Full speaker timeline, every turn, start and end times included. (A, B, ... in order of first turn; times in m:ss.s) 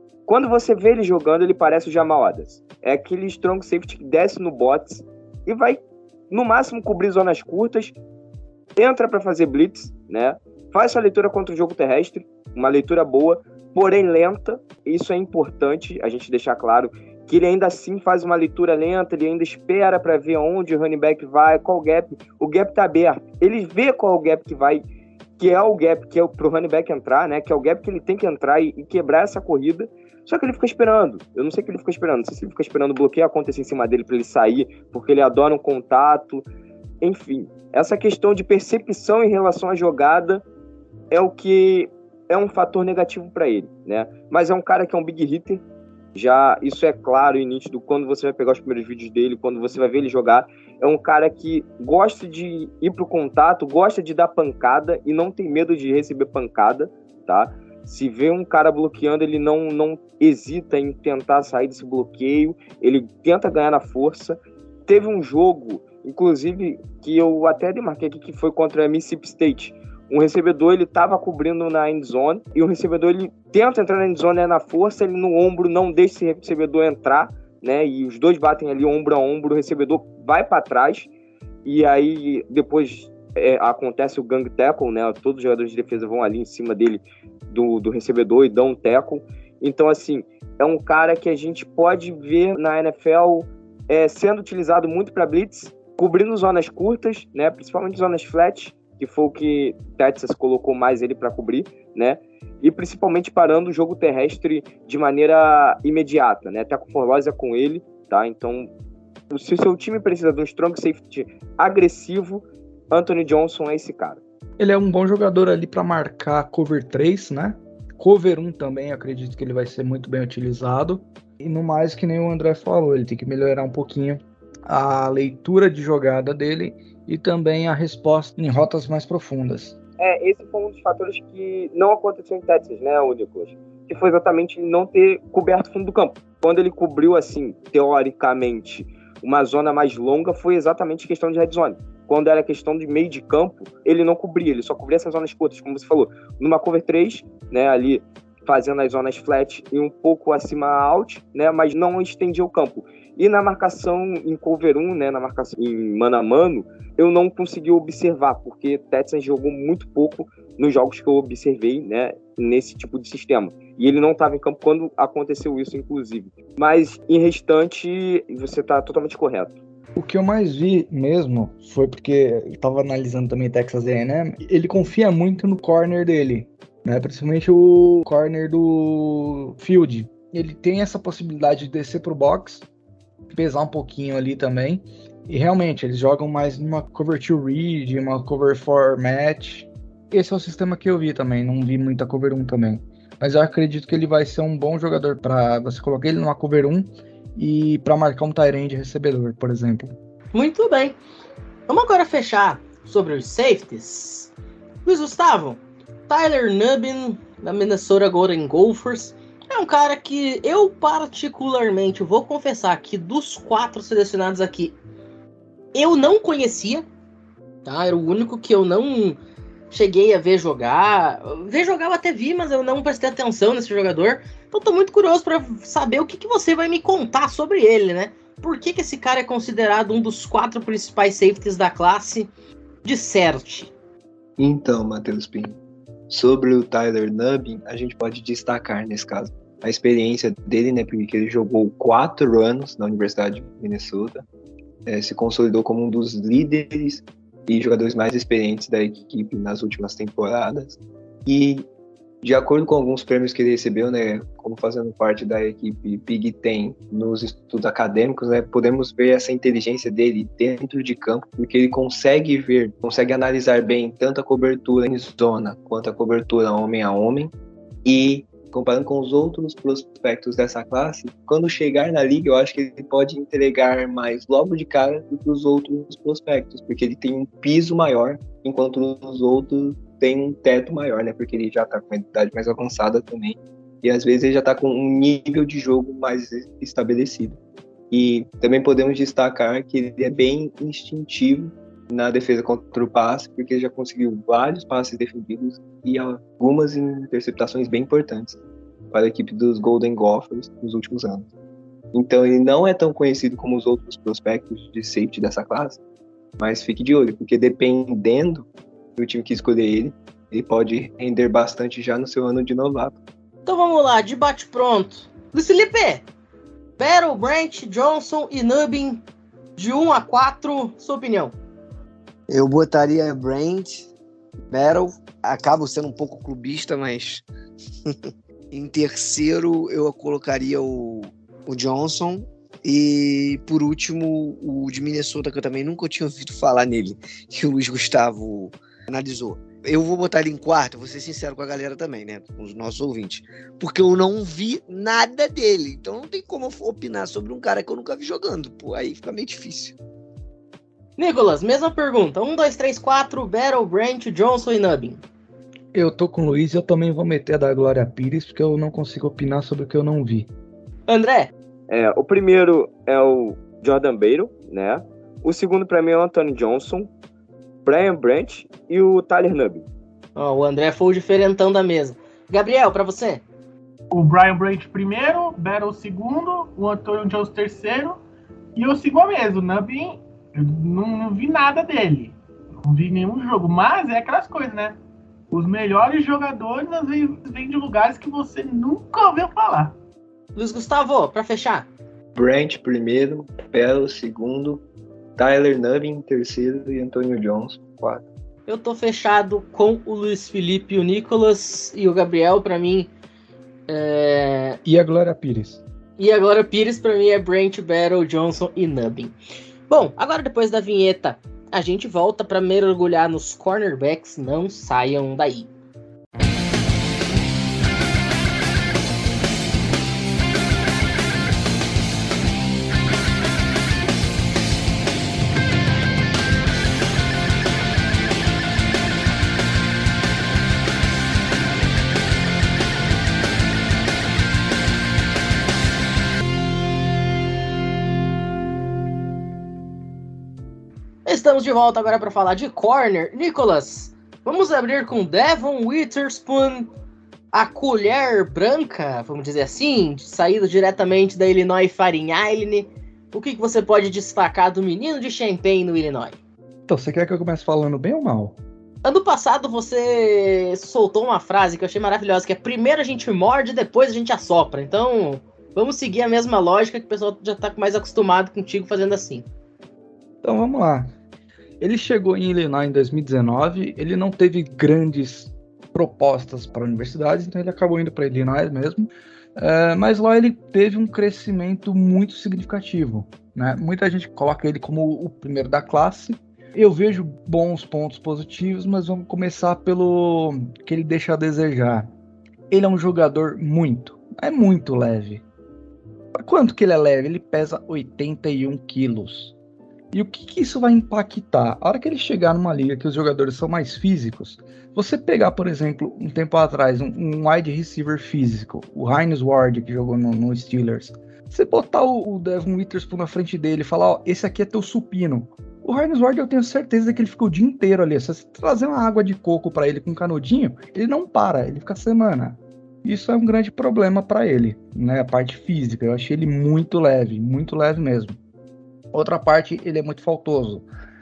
0:00.3-0:08.0 A
0:08.8-0:24.8 A
0:25.4-0:36.4 A
0:37.0-0:40.4 A
0:41.1-0:45.6 A
0:46.1-1:21.1 A
1:21.6-1:48.7 A
1:49.3-1:54.2 A
1:54.6-2:09.8 B
2:10.0-2:49.6 A
2:50.0-3:02.6 B
3:03.3-3:19.9 B
3:20.3-3:21.0 C
3:21.7-3:24.3 C
3:24.8-3:34.7 C
3:35.7-3:36.9 C
3:37.6-3:39.2 C
3:39.7-3:52.3 C
3:52.8-3:53.7 C
3:54.4-3:55.6 D
3:56.1-4:04.2 D
4:04.9-4:11.7 D
4:12.2-4:27.3 D
4:27.8-4:47.4 D
4:47.9-4:58.4 D
4:58.9-5:01.3 D
5:01.9-5:05.8 D
5:06.4-5:13.0 D
5:13.5-5:16.0 C
5:16.8-5:19.0 C
5:19.6-5:21.4 C
5:22.3-5:23.9 E
5:24.5-5:27.2 E
5:28.5-5:49.8 E
5:51.0-5:55.0 C
5:55.7-6:00.3 B
6:00.9-6:01.3 C
6:01.7-6:06.9 A
6:07.6-6:09.6 A
6:10.2-6:13.2 C
6:13.9-6:18.0 F
6:18.6-6:24.8 F
6:25.3-6:29.8 F
6:30.4-6:31.7 C
6:32.1-6:34.6 D
6:35.2-6:38.1 D
6:38.5-6:42.9 C
6:43.7-6:44.6 C
6:44.6-6:45.6 B
6:46.0-6:49.2 C
6:49.7-6:55.5 C
7:21.0-7:26.7 C
7:27.3-7:36.2 C
7:36.7-7:38.4 B
7:38.8-7:49.3 C
7:50.2-7:50.9 B
7:51.6-8:11.9 B
8:12.5-8:15.2 B
8:16.1-8:19.4 B
8:19.9-8:48.2 B
8:48.9-8:50.6 B